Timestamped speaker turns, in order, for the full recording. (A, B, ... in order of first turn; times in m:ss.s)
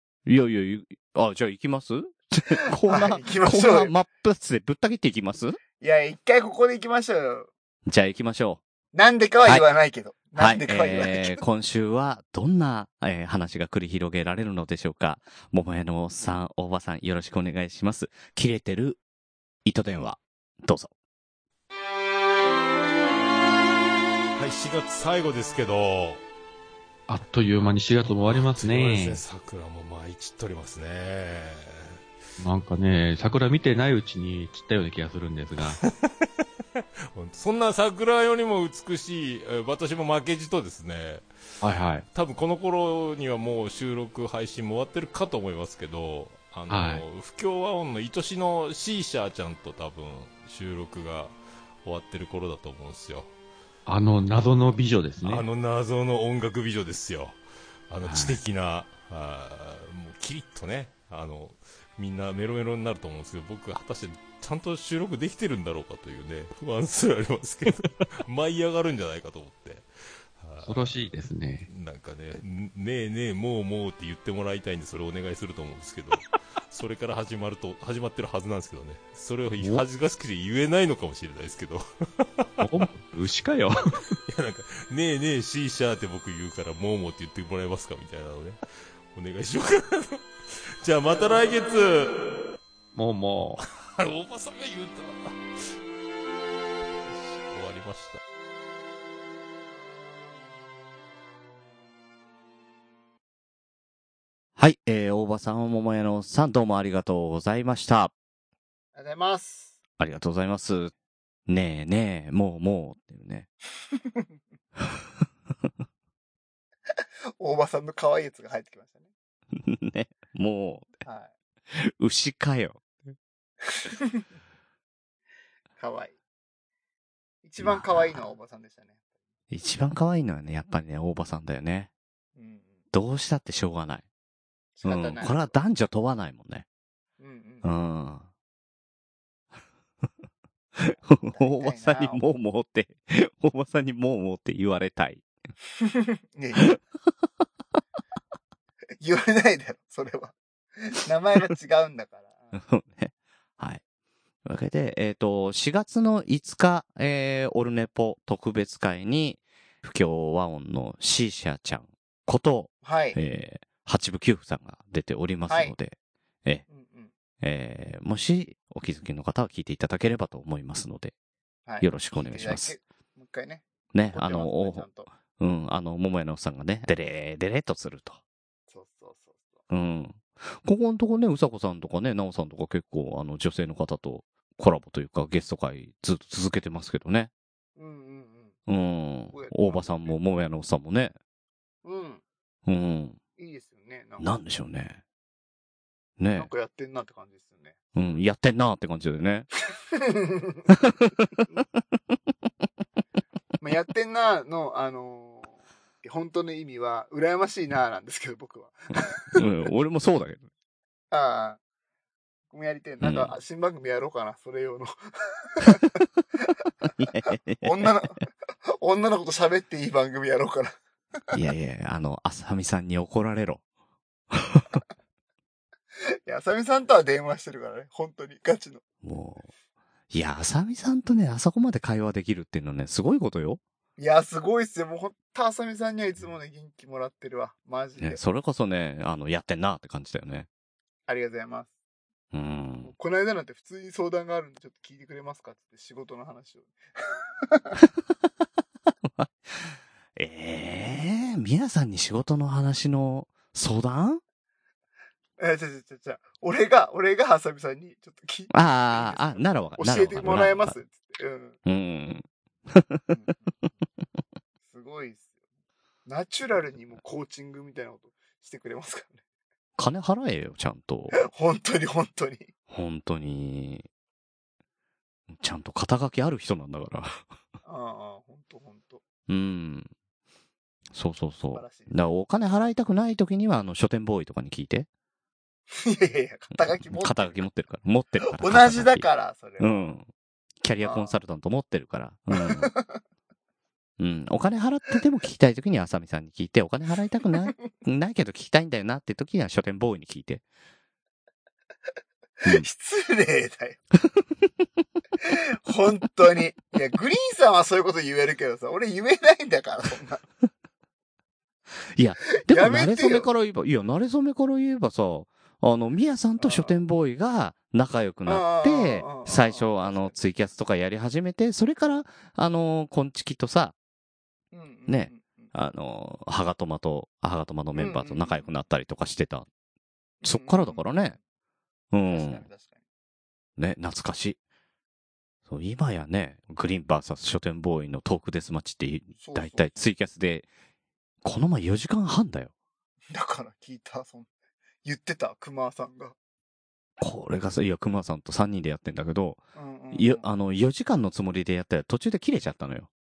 0:00.3-0:05.6 A
0:02.5-0:04.0 B
0:05.8-0:07.5 B
0:07.9-0:08.6 A
0:08.9-0:11.4 B
0:10.4-0:19.0 A
0:19.6-0:20.9 A
0:24.4-0:26.2 C
0:27.1-0:29.2 D
0:28.0-0:32.0 C
0:32.4-0:35.8 D
0:35.8-0:36.3 C
0:37.2-0:41.3 C
0:41.6-0:42.1 D
0:42.1-0:53.3 C
0:46.7-0:47.0 D
0:53.9-0:55.5 D
0:55.2-0:57.4 C
0:57.9-1:09.9 C
0:58.1-0:58.3 A
1:10.4-1:11.1 C
1:10.6-1:11.7 D
1:11.7-1:22.9 C
1:22.6-1:24.0 D
1:24.3-1:30.2 C
1:30.8-1:32.2 C
1:32.9-1:33.6 D
1:33.6-1:35.4 C
1:37.0-1:38.2 C
1:44.6-1:48.1 A
1:49.0-1:49.8 B
1:50.0-1:50.9 A
1:51.5-1:53.5 A
1:53.9-1:54.3 B
1:57.4-1:59.1 B
1:59.5-2:00.9 A
2:01.0-2:01.3 B
2:01.7-2:03.1 A
2:03.7-2:04.2 B
2:05.8-2:06.2 B
2:07.4-2:08.9 B
2:07.6-2:08.2 A
2:09.5-2:11.9 A
2:12.4-2:12.8 B
2:12.9-2:14.0 A
2:14.8-2:15.5 B
2:14.8-2:16.6 A
2:17.2-2:17.7 B
2:17.6-2:18.3 A
2:20.8-2:25.2 A
2:21.3-2:22.2 B
2:25.8-2:26.7 B
2:29.0-2:32.5 B
2:32.5-2:33.8 A
2:34.4-2:46.6 A
2:42.8-2:43.2 B
2:45.5-2:45.8 B
2:46.7-2:47.1 B
2:47.4-2:51.1 A
2:51.7-2:55.1 B
2:51.8-2:52.8 A
2:53.9-2:58.2 A
2:58.7-2:59.6 B
2:59.7-3:07.3 A
3:07.8-3:08.6 B
3:08.7-3:11.2 A
3:09.3-3:10.2 B
3:11.8-3:12.2 B
3:12.7-3:13.2 A
3:13.4-3:14.4 B
3:14.2-3:15.0 A
3:16.2-3:16.5 A
3:16.4-3:18.1 B
3:18.0-3:19.5 A
3:19.7-3:20.8 B
3:20.8-3:21.2 A
3:23.6-3:29.4 B
3:29.3-3:30.4 A
3:31.1-3:31.6 B
3:32.5-3:36.0 B
3:33.0-3:33.3 A
3:37.0-3:37.9 A
3:37.6-3:38.3 B
3:38.8-3:40.8 B
3:41.3-3:43.6 A
3:44.3-3:44.8 A
3:46.2-3:48.8 B
3:49.0-3:49.5 A
3:50.1-3:53.6 A
3:54.0-3:58.2 B
3:58.0-4:00.5 A
4:01.1-4:01.7 B
4:02.3-4:02.9 A
4:02.8-4:07.8 B
4:09.0-4:14.2 A
4:15.4-4:21.6 B
4:18.5-4:20.8 A
4:21.6-4:23.1 A
4:23.1-4:23.5 B
4:24.6-4:25.3 B
4:26.1-4:29.2 B
4:29.8-4:31.2 A
4:31.1-4:32.5 B
4:32.7-4:33.9 A
4:35.3-4:37.2 A
4:37.6-4:39.0 B
4:39.3-4:39.9 A
4:40.9-4:44.9 A
4:41.5-4:42.0 B
4:45.7-4:47.4 B
4:46.6-4:49.1 A
4:48.3-4:50.0 B
4:49.6-4:50.1 A
4:50.6-4:52.7 A
4:50.8-4:51.2 B
4:52.4-4:53.0 B
4:54.0-5:00.4 A
5:02.4-5:03.8 B
5:05.2-5:10.2 B
5:11.9-5:23.8 A
5:12.4-5:13.3 B
5:16.4-5:16.8 B
5:18.3-5:20.2 B
5:24.5-5:25.5 B
5:24.9-5:29.5 A
5:27.8-5:28.5 B
5:30.2-5:30.9 B
5:30.2-5:31.2 A
5:31.9-5:32.5 A
5:32.1-5:32.8 B
5:33.6-5:34.4 A
5:35.5-5:40.5 A
5:39.2-5:39.7 B
5:41.2-5:42.5 A
5:43.1-5:44.3 B
5:44.8-5:46.2 B
5:47.0-5:49.4 A
5:49.6-5:50.3 B
5:49.9-5:52.9 A